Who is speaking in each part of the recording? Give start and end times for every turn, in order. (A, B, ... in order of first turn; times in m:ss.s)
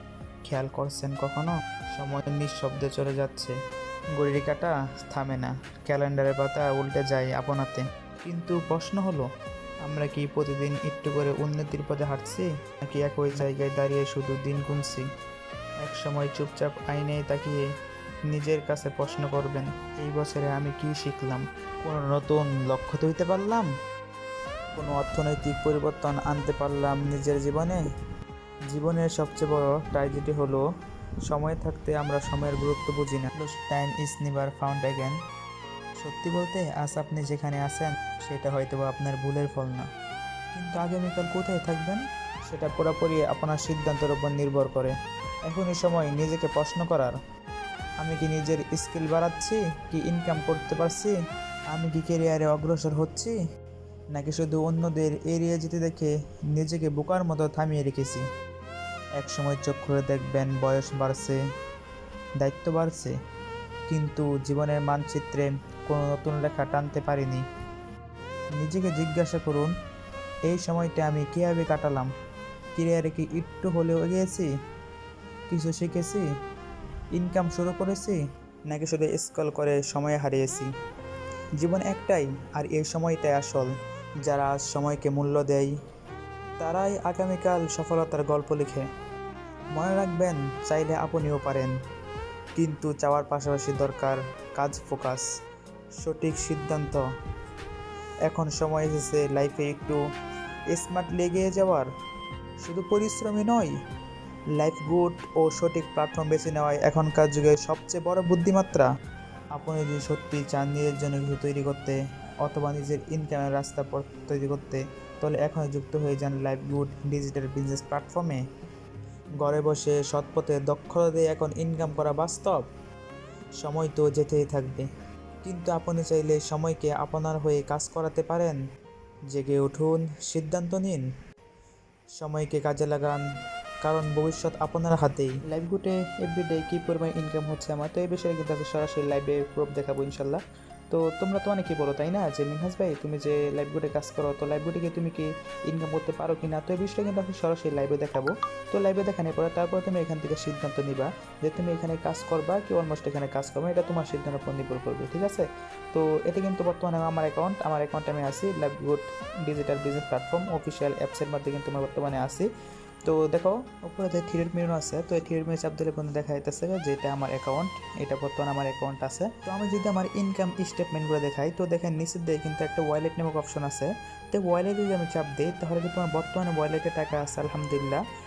0:00.4-0:03.5 A
0:04.2-0:09.3 A
0:09.8-0:15.0 A
0:15.8-0:17.6 A
0:18.3-0:23.7 A
0:24.8-0:27.8 A
0:28.7-0:30.6 A
0:31.2-0:35.2 A
0:36.0-0:39.9 A
0:40.5-0:45.0 A
0:45.5-0:47.1 A
0:48.0-0:51.1 A
0:51.7-0:53.3 A
0:54.1-0:58.2 A
0:59.2-1:01.4 A
1:02.4-1:03.1 A
1:03.9-1:07.4 A
1:08.6-1:09.7 A
1:10.4-1:12.1 A
1:12.8-1:14.5 A
1:15.5-1:16.2 A
1:17.2-1:20.7 A
1:21.6-1:23.7 A
1:24.2-1:25.7 A
1:26.6-1:28.9 A
1:29.7-1:31.7 A
1:32.6-1:35.2 A
1:36.0-1:37.0 A
1:38.3-1:40.0 A
1:40.7-1:41.9 A
1:42.6-1:43.7 A
1:44.6-1:48.9 A
1:49.5-1:58.4 A
1:59.4-2:02.7 A
2:03.6-2:04.9 A
2:05.4-2:08.6 A
2:09.3-2:11.1 A
2:12.2-2:13.2 A
2:13.8-2:42.5 A
2:43.0-2:58.0 A